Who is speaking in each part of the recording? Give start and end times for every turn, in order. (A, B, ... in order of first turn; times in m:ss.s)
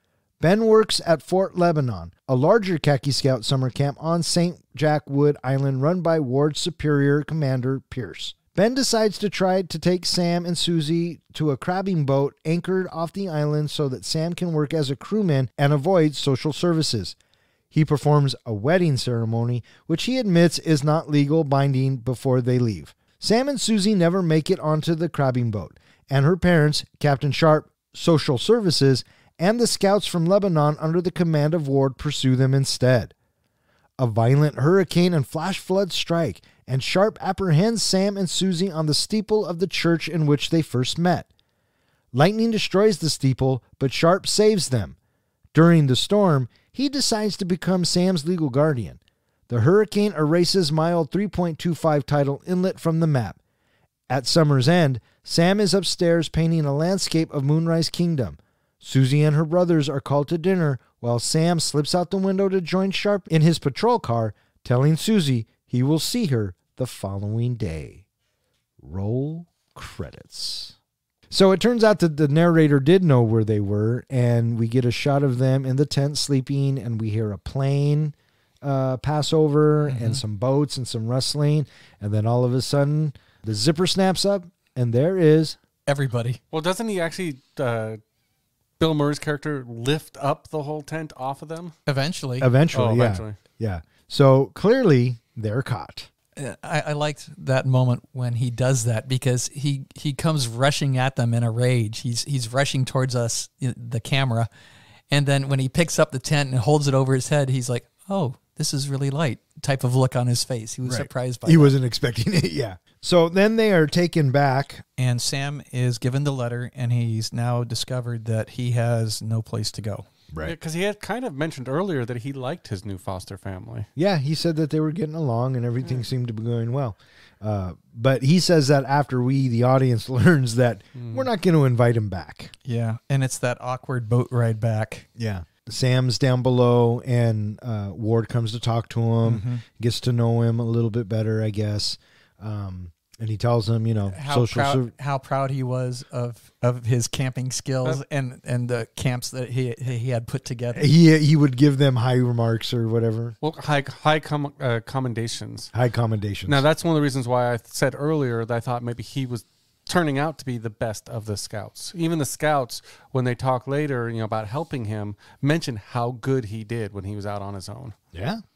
0:00.4-0:17.2 A
0:17.7-0:33.1 A
0:34.0-0:41.3 A
0:42.1-0:45.0 A
0:45.5-0:53.4 A
0:54.1-1:08.0 A
1:08.8-1:10.8 A
1:11.3-1:25.6 A
1:19.9-1:20.2 B
1:25.9-1:26.4 B
1:26.5-1:28.0 C
1:28.8-1:31.8 C
1:31.9-1:32.5 B
1:32.4-1:36.1 A
1:32.7-1:33.4 C
1:36.4-1:44.5 B
1:45.1-1:51.7 B
1:50.9-1:54.8 A
1:55.0-2:00.1 B
2:00.4-2:03.9 C
2:04.0-2:12.5 A
2:11.0-2:11.3 C
2:12.6-2:15.1 B
2:15.2-2:24.9 A
2:19.2-2:19.6 B
2:24.1-2:30.9 B
2:30.7-2:33.4 A
2:33.4-2:35.7 C
2:35.7-2:36.6 A
2:36.5-2:48.0 C
2:48.1-2:48.4 A